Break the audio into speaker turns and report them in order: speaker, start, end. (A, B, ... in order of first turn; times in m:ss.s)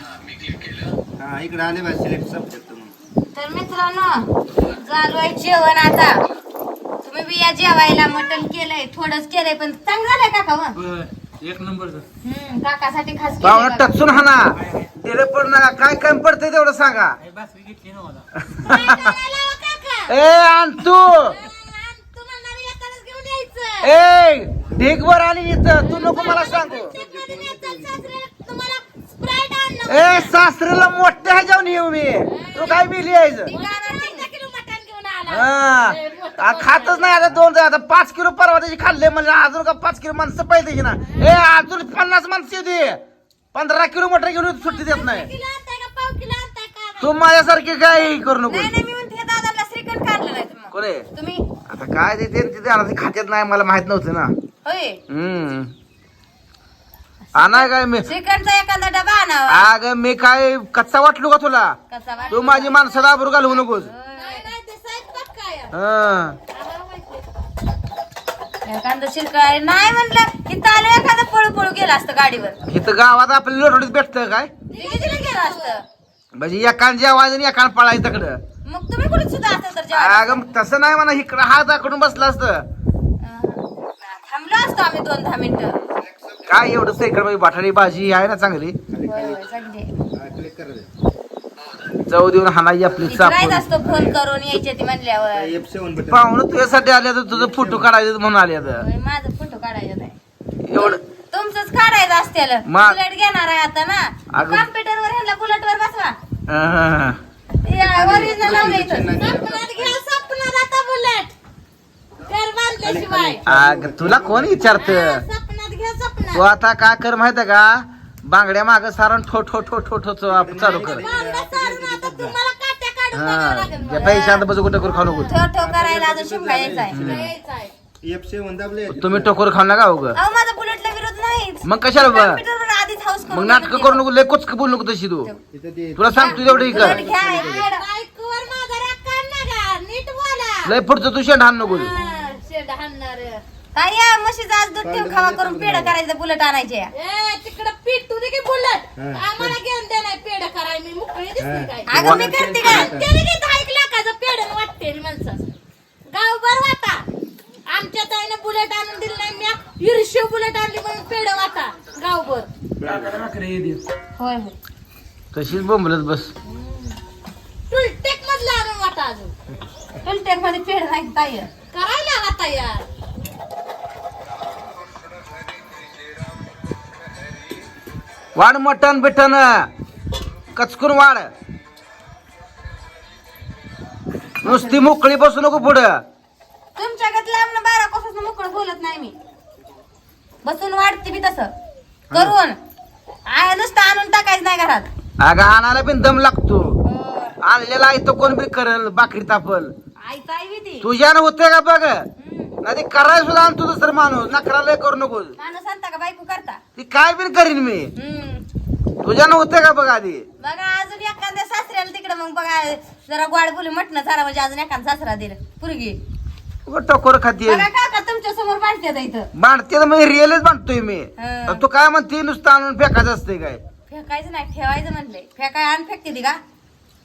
0:01.2-0:03.0 A
0:03.3-0:06.2 B
0:07.0-0:10.8 B
0:10.8-0:12.0 C
0:12.2-0:14.0 B
0:13.4-0:17.2 D
0:17.3-0:18.2 C
0:18.4-0:19.1 D
0:18.6-0:20.2 E
0:20.1-0:21.4 D
0:21.2-0:24.0 E
0:23.8-0:27.0 D
0:25.8-0:30.4 E
0:26.9-0:28.2 A
0:29.9-0:33.5 D
0:32.3-0:32.9 E
0:33.4-0:37.2 E
0:33.5-0:34.3 B
0:35.3-0:43.0 D
0:41.0-0:41.3 E
0:43.5-0:45.3 D
0:44.6-0:47.1 E
0:47.0-0:48.7 D
0:48.5-0:51.5 B
0:50.7-0:51.1 D
0:51.7-0:54.3 D
0:54.6-0:55.0 B
0:55.1-0:55.7 D
0:57.3-0:59.7 B
0:57.4-0:58.1 D
0:59.5-1:01.8 D
1:01.9-1:02.8 B
1:02.2-1:02.7 E
1:02.3-1:03.9 D
1:03.4-1:04.5 B
1:04.1-1:05.8 E
1:05.7-1:06.4 D
1:06.5-1:07.3 E
1:08.6-1:12.6 B
1:12.6-1:14.5 D
1:14.7-1:15.8 E
1:14.7-1:15.8 B
1:16.4-1:18.4 D
1:18.7-1:20.5 B
1:19.9-1:22.7 D
1:23.2-1:25.8 B
1:25.9-1:26.6 A
1:26.5-1:28.8 D
1:28.9-1:29.4 A
1:29.1-1:29.9 B
1:30.1-1:30.9 A
1:32.1-1:33.7 D
1:33.0-1:35.6 B
1:33.8-1:34.2 A
1:35.3-1:36.4 A
1:36.1-1:38.8 D
1:37.3-1:37.9 A
1:38.8-1:40.2 B
1:40.7-1:41.0 D
1:40.8-1:46.2 B
1:42.7-1:43.0 D
1:44.3-1:44.7 D
1:46.5-1:47.2 D
1:47.6-1:49.3 B
1:47.8-1:51.3 E
1:47.9-1:50.0 A
1:52.2-1:53.4 E
1:52.8-1:54.7 A
1:53.5-1:55.2 D
1:54.7-1:56.5 E
1:56.3-2:01.1 D
2:00.3-2:02.4 A
2:00.6-2:05.4 E
2:03.1-2:05.3 D
2:04.0-2:04.5 B
2:05.2-2:07.0 B
2:05.6-2:07.3 A
2:06.9-2:07.3 D
2:07.0-2:07.7 E
2:08.0-2:09.4 A
2:08.9-2:10.2 D
2:10.2-2:14.0 B
2:11.6-2:12.4 D
2:13.3-2:15.3 D
2:15.5-2:17.7 A
2:16.0-2:17.0 D
2:16.1-2:17.8 B
2:17.3-2:20.8 E
2:20.6-2:21.9 D
2:21.6-2:23.4 E
2:23.8-2:26.9 B
2:24.8-2:25.9 A
2:26.9-2:35.5 E
2:29.0-2:29.6 A
2:31.4-2:33.1 A
2:31.9-2:33.0 B
2:32.0-2:32.3 D
2:36.1-2:37.1 E
2:37.7-2:42.5 E
2:42.8-2:43.8 C
2:44.2-2:44.5 B
2:45.3-2:46.3 D
2:46.5-2:47.0 E
2:47.7-2:49.3 E
2:50.0-2:51.5 B
2:51.7-2:52.8 E
2:58.4-2:59.7 D
3:00.6-3:01.3 D
3:04.4-3:04.9 B
3:04.4-3:06.0 D
3:06.8-3:09.2 B
3:10.4-3:11.5 B
3:12.1-3:12.6 B
3:13.3-3:14.9 B
3:15.2-3:16.8 D
3:16.8-3:17.4 B
3:17.4-3:19.7 D
3:20.0-3:20.9 B
3:20.8-3:22.1 D
3:22.2-3:22.6 B
3:22.6-3:25.4 D
3:25.4-3:26.6 B
3:26.8-3:27.9 D
3:28.0-3:28.4 B
3:29.0-3:30.3 D
3:30.4-3:36.0 B
3:36.7-3:37.7 D
3:37.5-3:39.3 B
3:39.3-3:43.6 D
3:41.2-3:41.6 B
3:43.9-3:46.4 B